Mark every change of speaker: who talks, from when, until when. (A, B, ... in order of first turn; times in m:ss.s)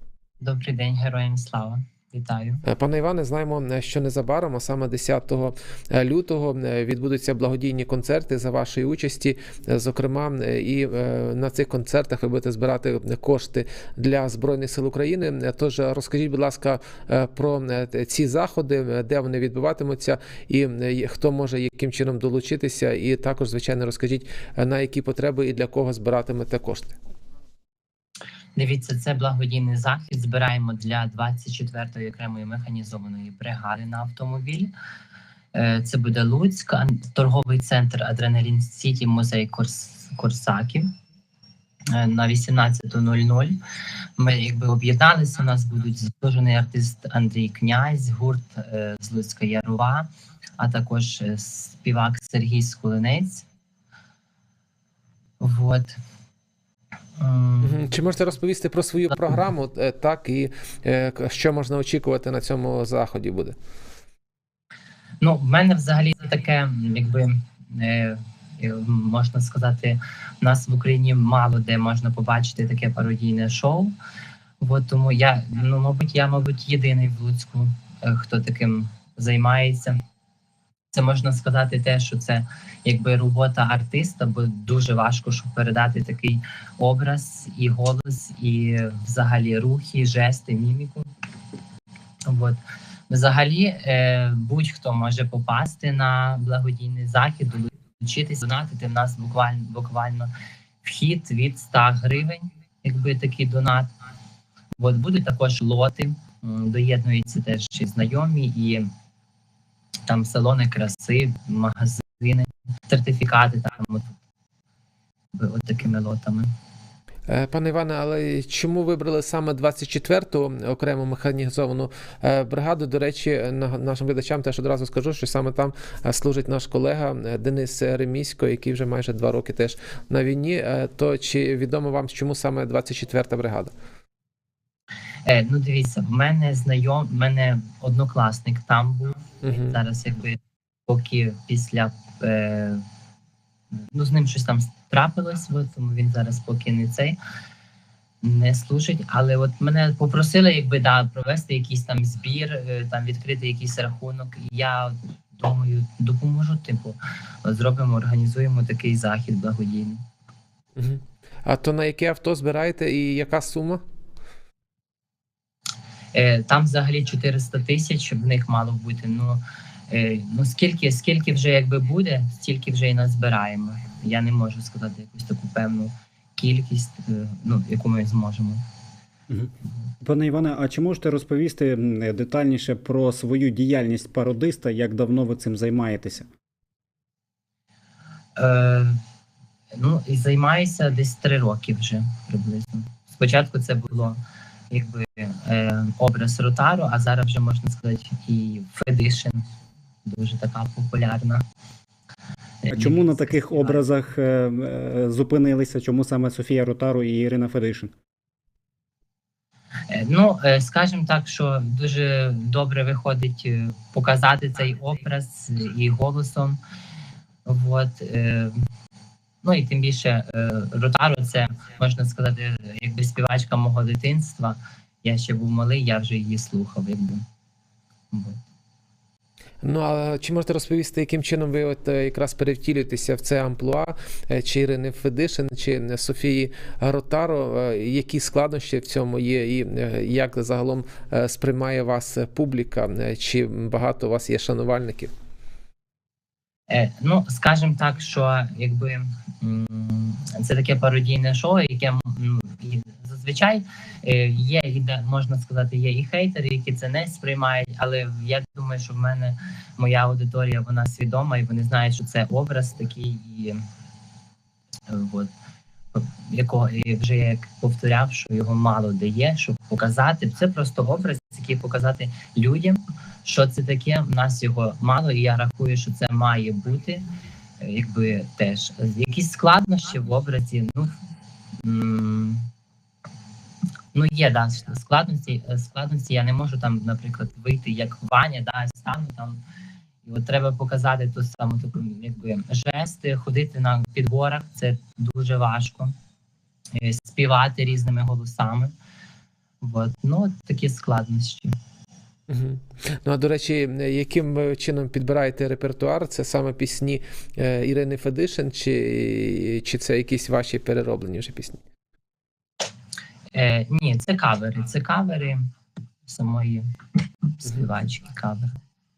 0:00.4-0:02.6 A
0:02.6-0:27.0 B
0:28.6-0:34.7 A
0:35.5-0:40.9 A
0:41.9-0:43.6 A
0:44.2-0:50.1 A
0:50.6-0:53.4 A
0:55.4-0:56.0 A
0:57.2-0:57.9 A
0:57.6-1:03.6 B
1:05.2-1:13.9 A
1:14.6-1:20.0 A
1:20.9-1:31.1 A
1:32.3-1:40.3 A
1:40.8-1:43.9 A
1:44.8-1:48.9 A
1:50.1-1:54.1 A
1:55.4-1:56.5 A
1:57.3-2:13.7 B
2:15.2-2:22.8 A
2:19.4-2:19.8 B
2:23.9-2:27.2 A
2:28.2-2:40.0 A
2:40.8-2:43.8 B
2:46.1-2:58.6 A
2:59.3-3:06.3 C
3:08.4-3:09.0 A
3:09.8-3:14.2 A
3:14.7-3:19.4 A
3:20.0-3:21.4 A
3:22.6-3:23.8 A
3:22.7-3:27.9 C
3:29.9-3:36.6 A
3:37.4-3:38.6 A
3:39.4-3:47.2 A
3:48.1-3:48.4 A
3:49.6-4:05.1 B
4:06.7-4:23.6 A
4:24.9-4:25.3 A
4:25.9-4:37.0 A
4:37.6-4:40.9 A
4:41.6-4:42.5 A
4:43.9-4:49.4 A
4:50.0-4:55.9 A
4:56.8-4:58.7 A
4:59.6-5:01.5 A
5:02.3-5:11.6 B
5:13.3-5:15.4 A
5:16.1-5:16.6 A
5:17.3-5:18.5 A